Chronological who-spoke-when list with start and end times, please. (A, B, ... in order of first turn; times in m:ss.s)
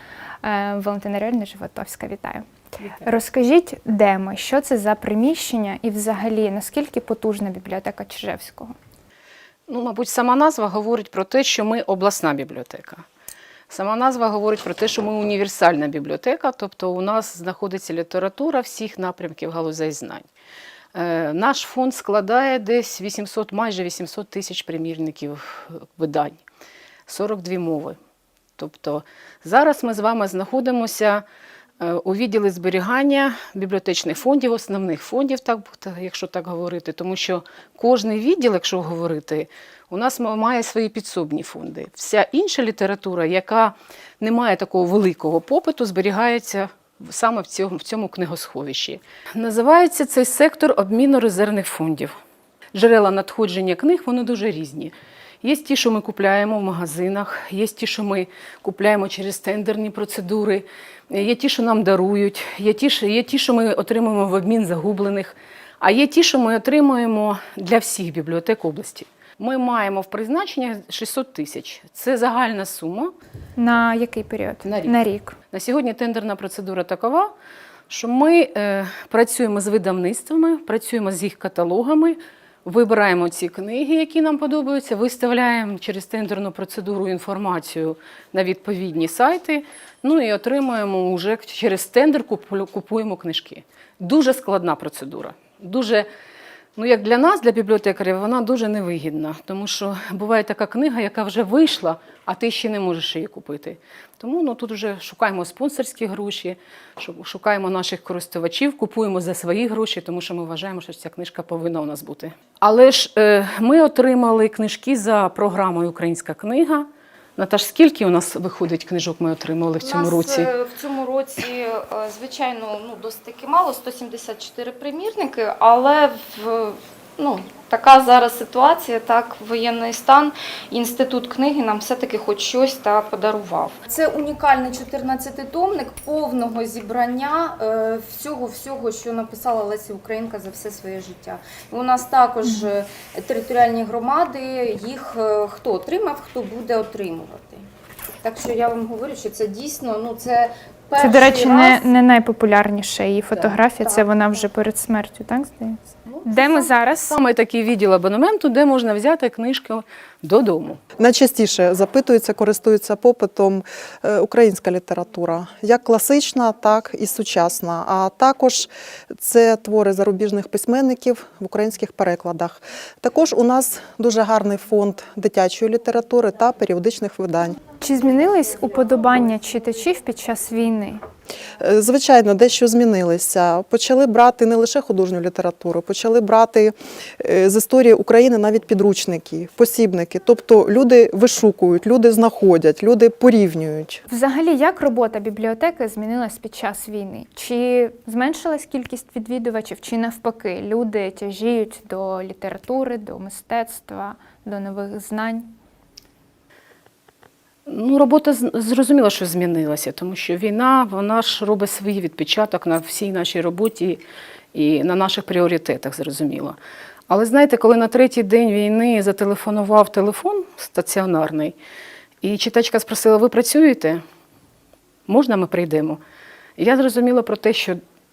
0:00.4-0:02.5 A
0:03.0-0:08.7 A
0:09.7-0:13.0 B
0:13.7-0:20.3 B
0:20.9-0:26.4 B
0:27.1-0:28.0 B
0:28.6-0:31.2 B
0:31.8-0:52.1 B
0:52.7-1:13.1 B
1:13.6-1:15.4 A
1:14.6-1:15.0 B
1:15.5-1:17.3 B
1:17.9-1:36.1 B
1:36.8-2:00.5 B
1:59.8-2:27.6 C
2:28.2-2:31.9 C
2:31.0-2:37.2 A
2:33.3-2:34.2 C
2:36.1-2:40.8 B
2:41.0-2:57.6 D
2:57.8-3:01.0 A
3:01.6-3:14.0 D
3:14.1-3:25.5 A
3:27.6-3:34.0 B
3:34.5-3:36.6 B
3:37.1-3:41.6 B
3:42.2-3:44.0 B
3:45.1-3:46.0 B
3:46.6-3:47.8 B